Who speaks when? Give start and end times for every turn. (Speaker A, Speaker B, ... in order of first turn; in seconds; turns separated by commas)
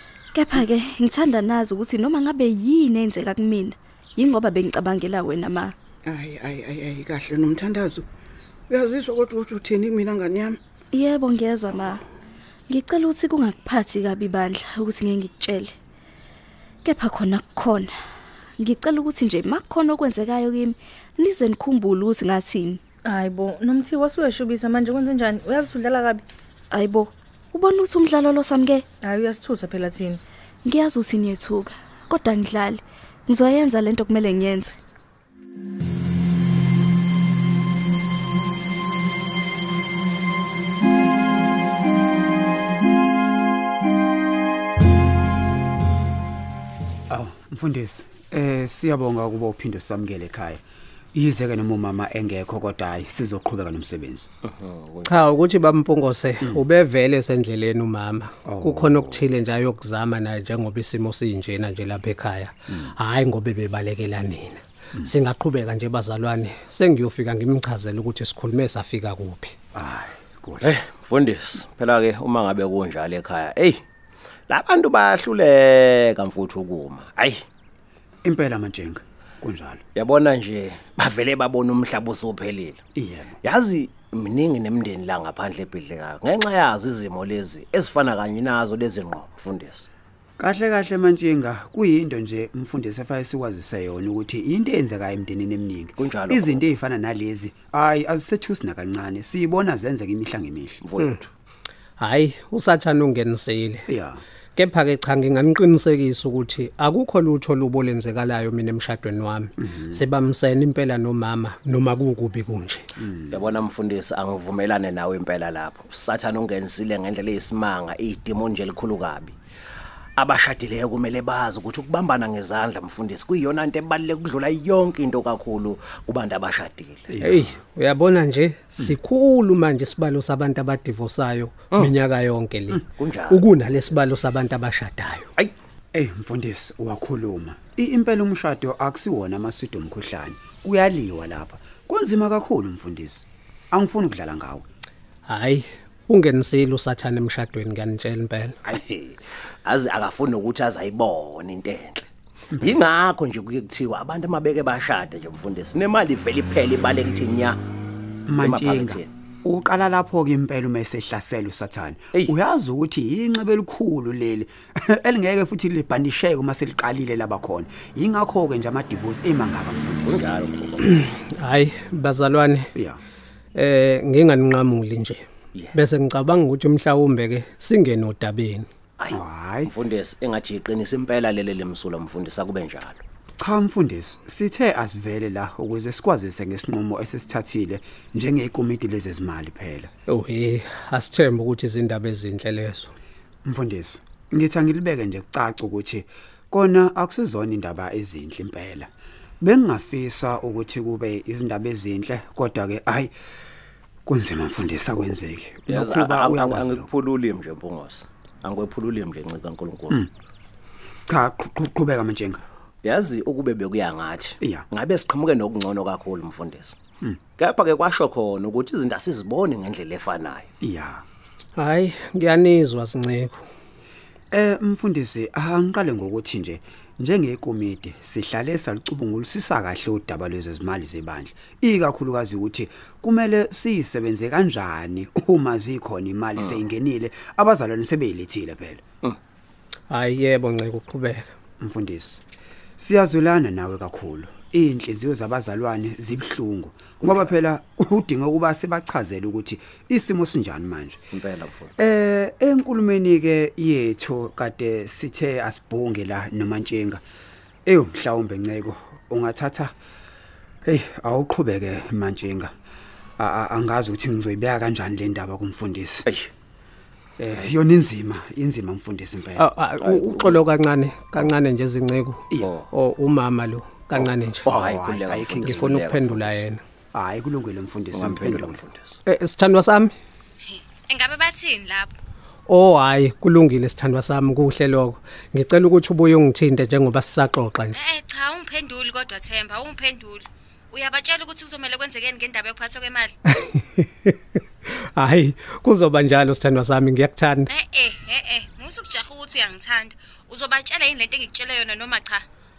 Speaker A: 0.3-5.7, Speaker B: 6.0-8.0, Speaker B: 8.7-10.6, Speaker A: 10.9-12.0, Speaker A: 12.7-15.7, Speaker A: 16.8-17.9, Speaker A: 18.6-22.8, Speaker C: 23.1-26.2, Speaker A: 26.7-28.8, Speaker C: 29.0-30.2, Speaker A: 30.6-34.7, Speaker D: 47.1-50.6, Speaker D: 51.1-54.3, Speaker E: 55.0-69.5, Speaker D: 58.4-59.2, Speaker D: 69.7-70.7, Speaker F: 70.7-73.8, Speaker F: 74.5-77.4, Speaker D: 78.2-79.8, Speaker F: 80.0-82.8, Speaker D: 83.0-83.3, Speaker F: 83.5-89.9, Speaker D: 90.4-100.8, Speaker F: 96.0-96.7, Speaker F: 100.9-101.2, Speaker E: 102.0-103.8, Speaker D: 103.9-104.2, Speaker E: 104.5-112.9, Speaker F: 113.3-119.3, Speaker F: 120.2-127.0, Speaker D: 127.1-127.6, Speaker E: 127.2-135.3, Speaker F: 133.0-133.4, Speaker D: 135.9-144.6, Speaker E: 145.3-148.6, Speaker F: 148.7-152.1, Speaker F: 152.6-157.6, Speaker D: 158.3-170.2, Speaker F: 158.4-159.1, Speaker F: 170.1-170.9, Speaker E: 170.8-172.7, Speaker D: 172.7-173.0, Speaker E: 173.5-175.2, Speaker E: 175.7-178.7, Speaker D: 179.1-179.7, Speaker F: 179.7-183.0, Speaker D: 183.4-189.9, Speaker E: 190.1-192.9, Speaker D: 193.4-198.9, Speaker D: 199.4-203.1, Speaker D: 204.1-206.9, Speaker F: 205.7-209.9, Speaker D: 211.1-212.4, Speaker F: 212.8-216.7, Speaker D: 214.4-214.7, Speaker F: 217.4-220.5, Speaker D: 220.6-221.0, Speaker E: 221.6-223.4, Speaker D: 224.3-238.8, Speaker E: 239.9-241.3, Speaker D: 241.6-242.2, Speaker D: 242.8-251.0, Speaker F: 251.2-251.7, Speaker D: 251.8-257.0, Speaker D: 257.6-259.7, Speaker D: 260.6-262.5, Speaker D: 263.2-266.1, Speaker D: 267.2-269.5, Speaker E: 269.4-274.5, Speaker F: 270.0-270.3, Speaker D: 274.4-275.8, Speaker F: 274.6-276.4, Speaker E: 275.4-276.6, Speaker D: 276.9-278.6, Speaker F: 278.0-278.9, Speaker E: 279.1-279.9, Speaker G: 280.9-281.9, Speaker E: 282.5-287.8, Speaker G: 287.7-293.1, Speaker E: 293.4-294.1, Speaker E: 294.7-297.5, Speaker G: 297.5-302.2